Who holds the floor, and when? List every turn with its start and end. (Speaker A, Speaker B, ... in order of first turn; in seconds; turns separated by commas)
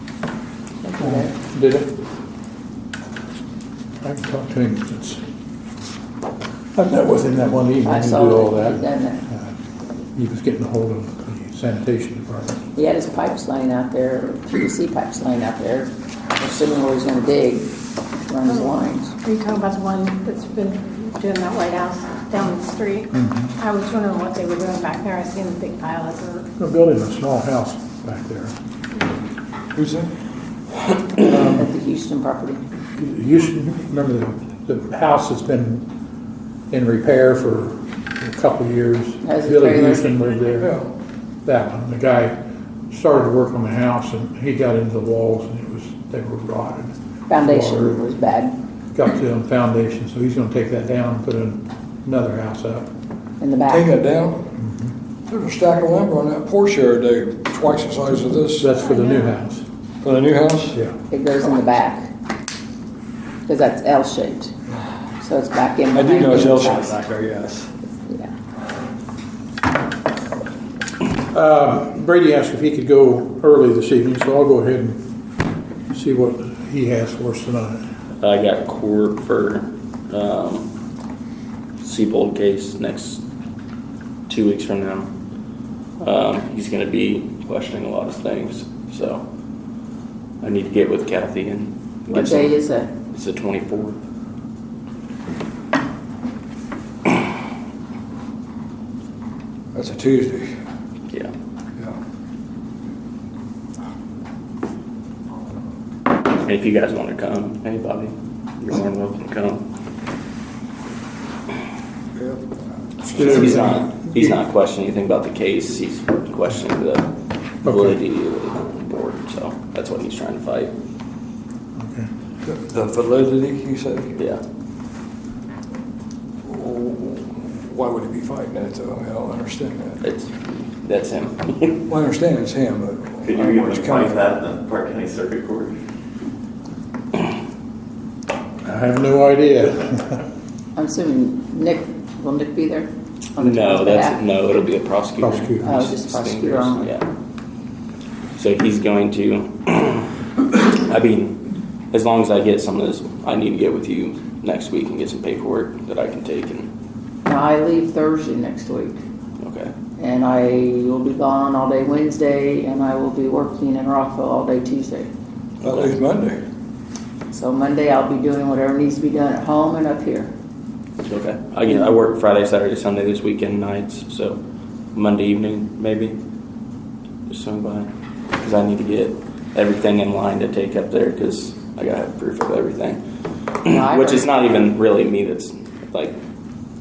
Speaker A: 0.8-1.4, Speaker B: 1.0-1.9, Speaker B: 4.0-5.2, Speaker B: 6.8-9.5, Speaker A: 7.8-9.2, Speaker B: 10.2-12.6, Speaker A: 12.8-17.7, Speaker A: 18.3-19.1, Speaker C: 18.5-26.5, Speaker B: 23.1-23.5, Speaker B: 26.6-28.5, Speaker D: 29.8-30.1, Speaker B: 31.2-31.7, Speaker A: 31.4-32.6, Speaker B: 33.0-35.9, Speaker B: 36.7-40.7, Speaker A: 39.2-40.1, Speaker D: 40.6-40.9, Speaker B: 41.5-42.4, Speaker B: 42.9-48.0, Speaker A: 47.3-48.6, Speaker B: 48.9-52.9, Speaker A: 53.4-53.9, Speaker D: 53.7-54.5, Speaker B: 54.6-54.9, Speaker D: 55.3-58.7, Speaker B: 58.6-59.7, Speaker C: 58.8-59.4, Speaker D: 60.0-60.8, Speaker A: 61.1-62.1, Speaker A: 63.5-64.5, Speaker A: 65.2-67.0, Speaker D: 65.9-67.7, Speaker A: 68.1-68.3, Speaker B: 71.3-75.0, Speaker B: 75.9-77.8, Speaker E: 78.2-80.7, Speaker E: 81.8-83.2, Speaker E: 84.3-85.1, Speaker E: 86.0-89.2, Speaker E: 90.4-92.5, Speaker A: 92.1-92.9, Speaker E: 93.1-94.0, Speaker D: 99.7-100.5, Speaker E: 106.4-109.7, Speaker D: 112.2-112.6, Speaker E: 113.0-117.1, Speaker B: 113.1-114.3, Speaker E: 117.6-120.7, Speaker B: 117.7-118.0, Speaker B: 121.8-122.1, Speaker D: 122.4-124.2, Speaker D: 126.4-130.0, Speaker E: 130.0-131.9, Speaker D: 131.9-134.3, Speaker F: 133.3-135.7, Speaker B: 138.7-140.2, Speaker A: 140.8-144.2, Speaker E: 143.4-147.1, Speaker B: 145.2-145.7, Speaker A: 145.6-146.9, Speaker E: 148.4-156.7, Speaker A: 157.2-159.0, Speaker E: 159.4-159.7, Speaker A: 160.0-165.1, Speaker D: 165.6-166.4, Speaker E: 165.6-166.0, Speaker A: 167.3-170.3, Speaker E: 171.1-174.4, Speaker A: 171.7-171.9, Speaker E: 174.9-176.2, Speaker E: 177.3-183.0, Speaker E: 183.6-186.2, Speaker A: 183.7-184.3